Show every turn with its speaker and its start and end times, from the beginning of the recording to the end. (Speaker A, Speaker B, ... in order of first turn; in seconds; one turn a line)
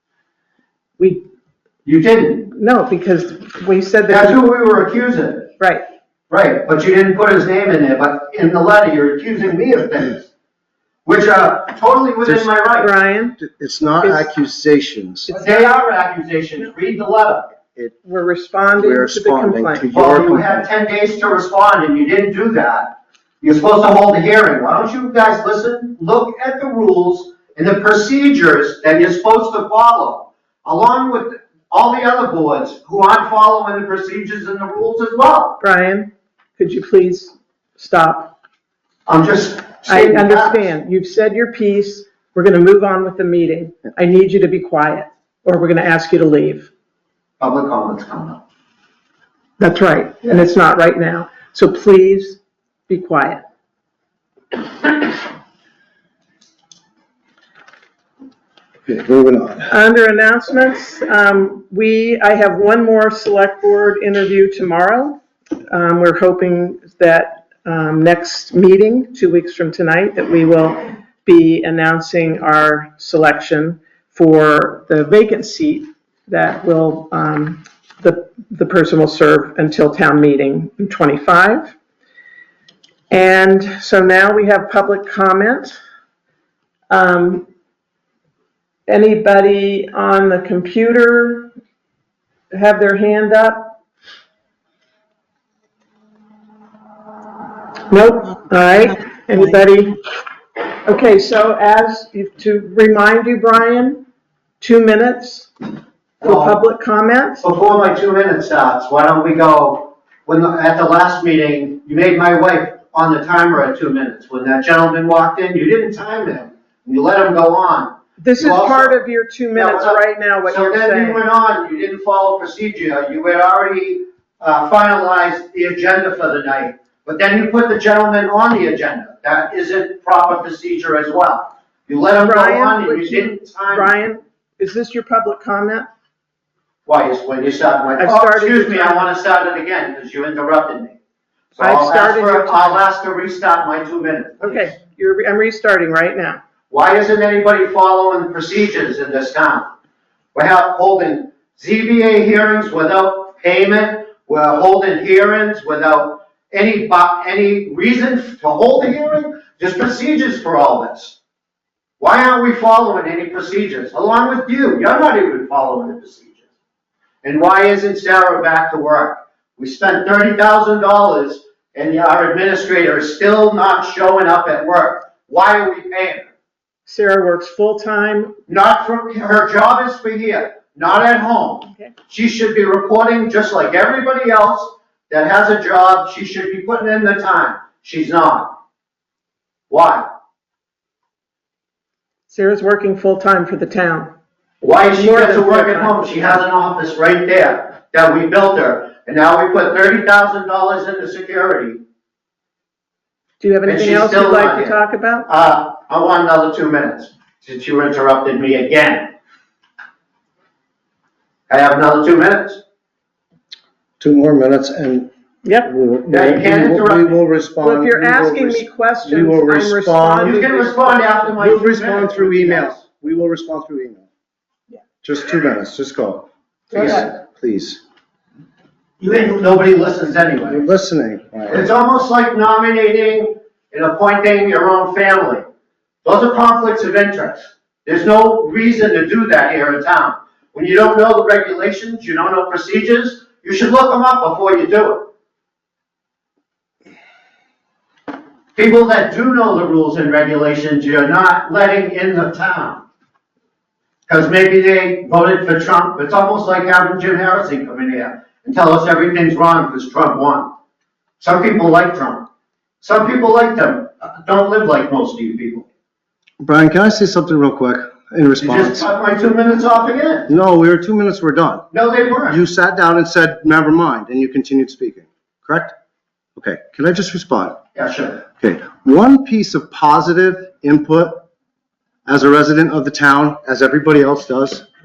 Speaker A: 1.0-1.3
Speaker B: 1.9-2.5
Speaker A: 2.5-4.4
Speaker B: 4.1-5.5
Speaker A: 5.6-5.8
Speaker B: 6.3-10.3
Speaker B: 11.1-12.9
Speaker A: 12.8-13.4
Speaker C: 13.4-15.4
Speaker A: 14.0-14.3
Speaker B: 15.3-17.5
Speaker A: 18.0-19.9
Speaker C: 18.8-20.6
Speaker B: 19.9-35.6
Speaker A: 35.6-38.4
Speaker B: 39.1-40.7
Speaker A: 39.9-46.7
Speaker B: 47.4-48.4
Speaker A: 49.6-53.4
Speaker C: 58.9-59.7
Speaker A: 59.7-81.8
Speaker A: 83.1-85.8
Speaker A: 86.9-87.5
Speaker A: 88.9-91.5
Speaker A: 92.5-93.8
Speaker A: 97.9-100.0
Speaker A: 100.8-104.0
Speaker A: 104.6-105.5
Speaker B: 106.2-106.6
Speaker A: 106.2-107.5
Speaker B: 107.4-133.9
Speaker A: 118.2-121.2
Speaker A: 132.2-135.9
Speaker B: 136.9-141.0
Speaker A: 138.0-139.1
Speaker B: 141.6-144.7
Speaker A: 141.6-142.8
Speaker A: 144.4-146.4
Speaker B: 146.7-149.7
Speaker B: 150.3-161.2
Speaker B: 162.0-166.4
Speaker B: 167.2-176.3
Speaker A: 176.9-178.4
Speaker B: 178.5-188.6
Speaker B: 189.7-190.1
Speaker A: 192.3-194.2
Speaker B: 194.6-201.8
Speaker A: 194.9-196.4
Speaker A: 203.4-205.3
Speaker B: 203.7-209.1
Speaker B: 211.5-212.6
Speaker C: 214.0-215.1
Speaker A: 215.4-215.7
Speaker C: 215.6-220.4
Speaker B: 216.1-217.2
Speaker A: 217.6-221.3
Speaker B: 220.2-222.8
Speaker C: 221.4-224.1
Speaker C: 225.0-227.8
Speaker B: 229.0-230.6
Speaker C: 230.4-231.7
Speaker B: 231.5-235.5
Speaker B: 236.0-245.1
Speaker B: 248.6-252.8
Speaker B: 254.1-260.5
Speaker B: 261.2-262.3
Speaker B: 262.8-265.7
Speaker C: 266.4-268.9
Speaker B: 268.4-270.3
Speaker C: 270.3-271.7
Speaker B: 271.7-272.4
Speaker C: 272.3-275.8
Speaker C: 276.4-277.6
Speaker B: 277.8-278.2
Speaker C: 278.4-281.2
Speaker C: 282.1-284.7